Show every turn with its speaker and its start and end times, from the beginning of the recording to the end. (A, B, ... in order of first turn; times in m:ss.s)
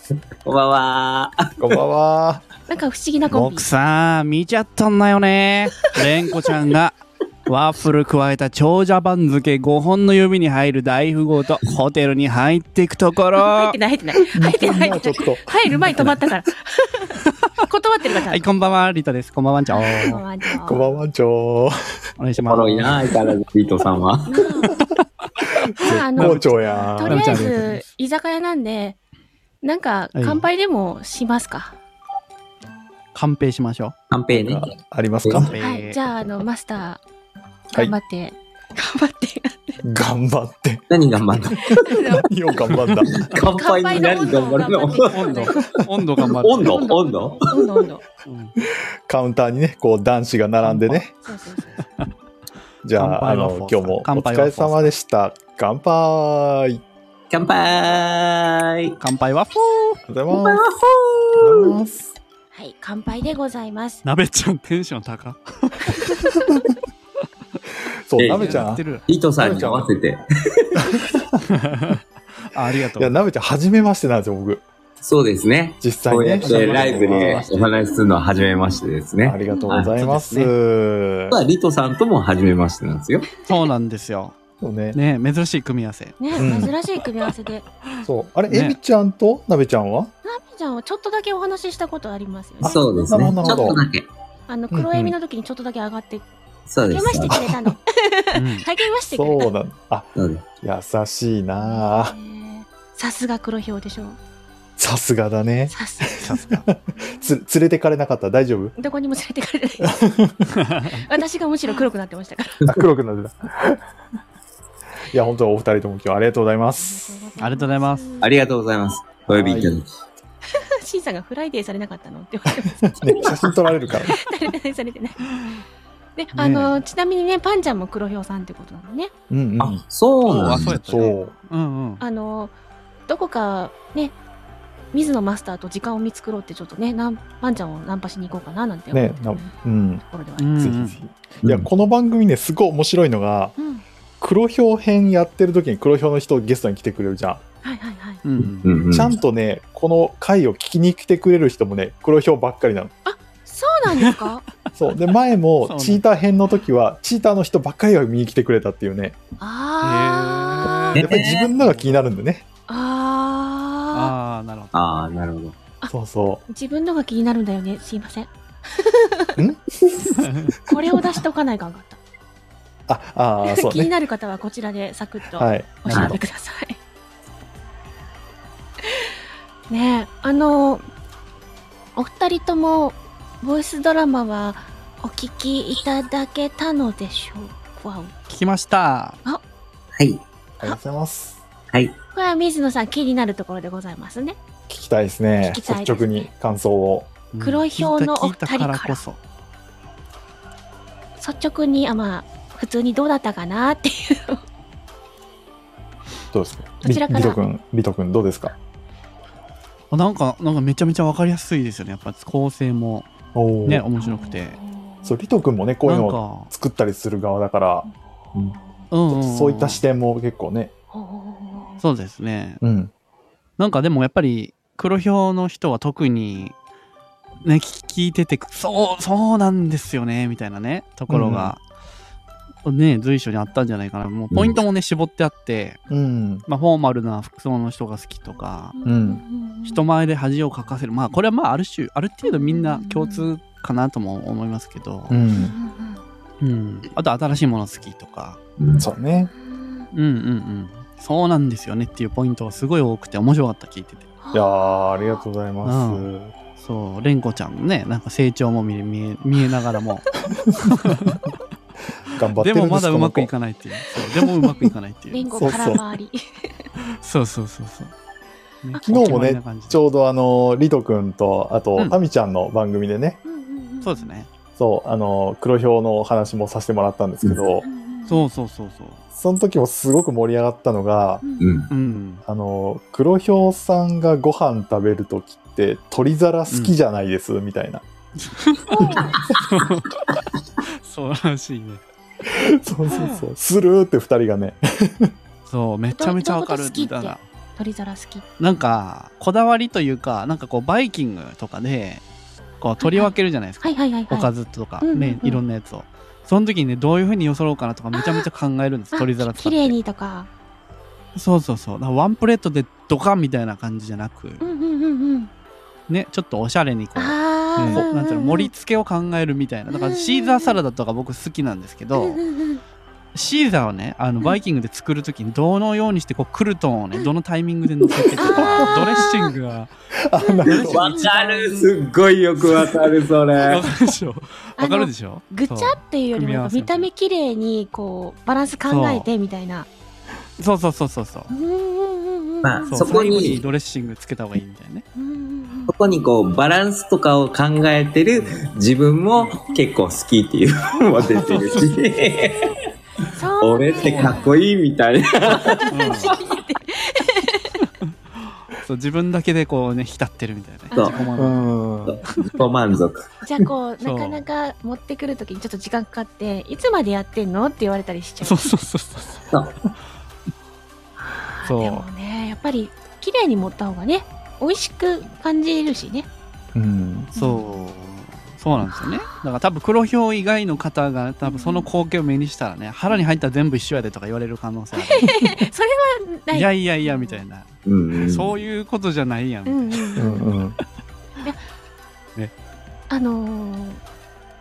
0:00.4-0:01.8 A
0:01.6-0:02.5 B
0:02.7-0:03.6 C
0:03.3-0:03.6 B
0:03.4-0:13.7 D
0:13.4-0:18.4 C
0:14.3-0:15.5 B
0:18.3-0:20.2 D
0:19.7-0:21.0 C
0:19.8-0:21.7 B
0:22.2-0:23.1 D
0:22.5-0:24.4 A
0:24.3-0:24.7 C
0:25.6-0:27.5 B
0:25.8-0:29.0 C
0:25.9-0:27.8 D
0:29.6-0:31.8 C
0:30.1-0:30.4 D
0:33.1-0:33.9 D
0:34.1-0:34.7 A
0:34.3-0:35.5 B
0:35.2-0:35.5 A
0:35.3-0:36.0 D
0:35.6-0:37.0 C
0:37.7-0:39.8 C
0:39.8-0:43.3 B
0:40.9-0:41.8 A
0:41.8-0:42.3 C
0:43.2-0:47.4 A
0:43.3-0:45.5 C
0:45.0-0:46.8 D
0:46.6-0:48.0 C
0:48.2-0:48.5 D
0:49.1-0:51.1 B
0:50.6-0:51.0 D
0:51.2-0:51.8 C
0:52.8-0:56.8 B
0:53.0-0:54.9 D
0:57.3-0:59.0 A
0:59.0-1:00.0 D
1:00.1-1:00.6 B
1:00.3-1:01.7 A
1:01.4-1:02.2 B
1:02.5-1:04.0 C
1:04.0-1:06.4 D
1:08.1-1:08.8 B
1:08.2-1:11.0 A
1:08.2-1:09.1 D
1:09.4-1:09.9 B
1:10.8-1:11.4 B
1:11.5-1:12.0 D
1:12.5-1:13.2 D
1:13.0-1:14.6 B
1:15.0-1:19.9 A
1:15.8-1:17.4 B
1:16.4-1:17.7 D
1:18.4-1:18.8 C
1:19.2-1:21.4 B
1:19.8-1:20.5 D
1:21.3-1:23.3 A
1:23.4-1:23.7 C
1:23.5-1:24.4 D
1:24.6-1:25.0 B
1:24.9-1:27.0 D
1:26.2-1:27.6 C
1:26.4-1:26.7 B
1:28.0-1:30.1 B
1:28.5-1:28.8 D
1:30.2-1:32.8 C
1:32.6-1:33.8 B
1:32.6-1:34.1 A
1:33.4-1:33.8 C
1:34.5-1:36.3 C
1:34.7-1:35.1 B
1:36.7-1:37.4 A
1:36.9-1:39.5 C
1:37.3-1:37.7 B
1:38.3-1:38.6 D
1:39.1-1:40.1 B
1:40.2-1:40.4 A
1:40.6-1:42.1 B
1:41.6-1:44.2 C
1:44.8-1:48.7 B
1:45.7-1:47.4 C
1:46.2-1:46.6 D
1:48.8-1:49.9 C
1:49.8-1:50.5 B
1:50.6-1:50.9 D
1:50.9-1:52.6 C
1:52.7-1:53.8 B
1:55.1-1:57.2 B
1:56.8-1:58.3 C
1:57.4-1:58.1 D
1:58.2-1:59.9 A
1:59.3-1:59.8 B
2:00.5-2:02.8 C
2:02.8-2:04.2 B
2:04.1-2:05.2 C
2:06.2-2:09.1 C
2:06.4-2:06.8 B
2:09.3-2:09.8 B
2:09.6-2:10.8 A
2:10.2-2:12.0 D
2:10.5-2:11.3 B
2:12.0-2:12.5 C
2:13.1-2:14.1 C
2:14.9-2:19.0 C
2:18.9-2:20.0 B
2:20.1-2:20.6 C
2:20.4-2:21.0 D
2:20.6-2:23.5 B
2:23.6-2:23.8 C
2:24.2-2:27.4 B
2:27.6-2:28.2 C
2:28.2-2:28.7 D
2:28.6-2:29.1 A
2:28.9-2:32.9 B
2:33.0-2:34.4 C
2:34.8-2:39.2 B
2:35.6-2:36.0 D
2:39.4-2:40.9 C
2:39.8-2:42.0 D
2:40.9-2:41.4 A
2:41.0-2:42.4 B
2:42.7-2:44.1 C
2:43.9-2:44.8 D
2:44.7-2:45.6 A
2:45.9-2:46.4 B
2:46.5-2:49.4 C
2:49.4-2:50.3 B
2:50.7-2:52.0 C
2:52.9-2:53.9 B
2:53.4-2:56.8 C
2:55.4-2:56.2 B
2:55.9-2:56.2 A
2:59.7-3:00.8 C
3:02.0-3:08.1 C
3:08.3-3:09.2 D
3:10.0-3:10.2 A
3:10.6-3:11.4 B
3:12.1-3:14.4 C
3:14.7-3:17.1 B
3:15.4-3:16.3 C
3:17.3-3:19.2 D
3:17.4-3:19.0 C
3:21.2-3:24.4 C
3:26.3-3:28.5 B
3:26.8-3:27.4 C
3:29.9-3:33.1 D
3:33.3-3:33.8 B
3:33.6-3:34.6 D
3:34.0-3:35.1 C
3:35.0-3:37.9 B
3:35.8-3:36.5 D
3:38.5-3:38.9 C
3:38.9-3:39.8 D
3:39.1-3:40.7 B
3:40.9-3:41.8 C
3:41.8-3:42.6 D
3:42.6-3:42.9 B
3:43.6-3:46.5 D
3:47.4-3:51.6 D
3:51.1-3:51.5 B
3:52.6-3:55.8 D
3:54.3-3:54.6 A
3:55.9-3:56.4 B
3:56.5-3:58.7 D
3:58.7-3:59.8 C
3:58.8-3:59.2 B
3:59.6-4:05.2 D
4:02.2-4:03.3 C
4:05.1-4:05.5 B
4:05.3-4:06.0 C
4:06.4-4:08.4 D
4:08.6-4:08.9 A
4:08.8-4:09.3 B
4:09.3-4:09.9 C
4:09.9-4:14.1 D
4:14.2-4:15.2 C
4:14.3-4:16.3 B
4:15.6-4:21.2 D
4:20.5-4:21.1 B
4:22.1-4:23.3 B
4:22.4-4:25.8 D
4:24.3-4:24.7 B
4:25.1-4:26.2 C
4:25.4-4:25.8 B
4:27.0-4:27.9 D
4:28.6-4:29.8 D
4:28.8-4:33.2 B
4:33.2-4:34.1 C
4:33.8-4:34.3 D
4:34.6-4:37.6 B
4:37.6-4:38.2 C
4:38.1-4:39.0 D
4:39.1-4:41.2 B
4:41.2-4:41.5 C
4:41.4-4:41.7 A
4:41.7-4:42.2 D
4:42.2-4:47.8 B
4:46.5-4:46.7 D
4:48.2-4:48.8 D
4:48.7-4:49.2 C
4:49.4-4:51.8 D
4:52.2-4:55.1 B
4:52.9-4:53.3 C
4:55.5-4:57.2 D
4:55.9-4:58.2 C
4:58.4-5:02.0 D
5:02.6-5:09.7 D
5:02.8-5:04.3 C
5:04.8-5:05.4 C
5:07.9-5:08.2 C
5:08.9-5:10.3 C
5:11.1-5:14.4 D
5:14.4-5:15.3 C
5:15.9-5:22.2 D
5:17.0-5:18.5 C
5:17.6-5:17.8 B
5:19.7-5:20.6 C
5:22.0-5:22.6 C
5:23.1-5:29.7 D
5:28.2-5:29.3 C
5:28.3-5:28.9 B
5:30.1-5:30.9 B
5:30.2-5:31.5 C
5:30.4-5:33.6 A
5:30.9-5:31.7 D
5:32.4-5:36.9 D
5:34.6-5:39.7 C
5:38.7-5:39.1 D
5:40.4-5:41.3 D
5:41.3-5:42.9 C
5:42.4-5:43.4 A
5:42.7-5:44.8 D
5:45.0-5:45.7 C
5:45.7-5:52.5 A
5:51.0-5:51.8 D
5:53.0-5:54.4 C
5:53.4-5:55.7 A
5:53.8-5:54.2 D
5:55.6-5:57.6 C
5:55.7-5:56.1 D
5:58.2-6:01.5 D
6:00.7-6:01.5 C
6:01.2-6:02.0 B
6:01.8-6:03.1 A
6:02.1-6:02.4 D
6:03.2-6:08.4 C
6:03.8-6:04.2 D
6:08.2-6:09.2 D
6:11.0-6:16.1 C
6:11.4-6:11.8 D
6:16.5-6:17.1 B
6:17.1-6:17.6 C
6:17.2-6:25.2 D
6:21.2-6:21.7 C
6:24.8-6:27.2 C
6:26.3-6:30.0 D
6:27.6-6:28.3 A
6:29.5-6:30.3 C
6:30.0-6:30.6 B
6:32.9-6:33.8 C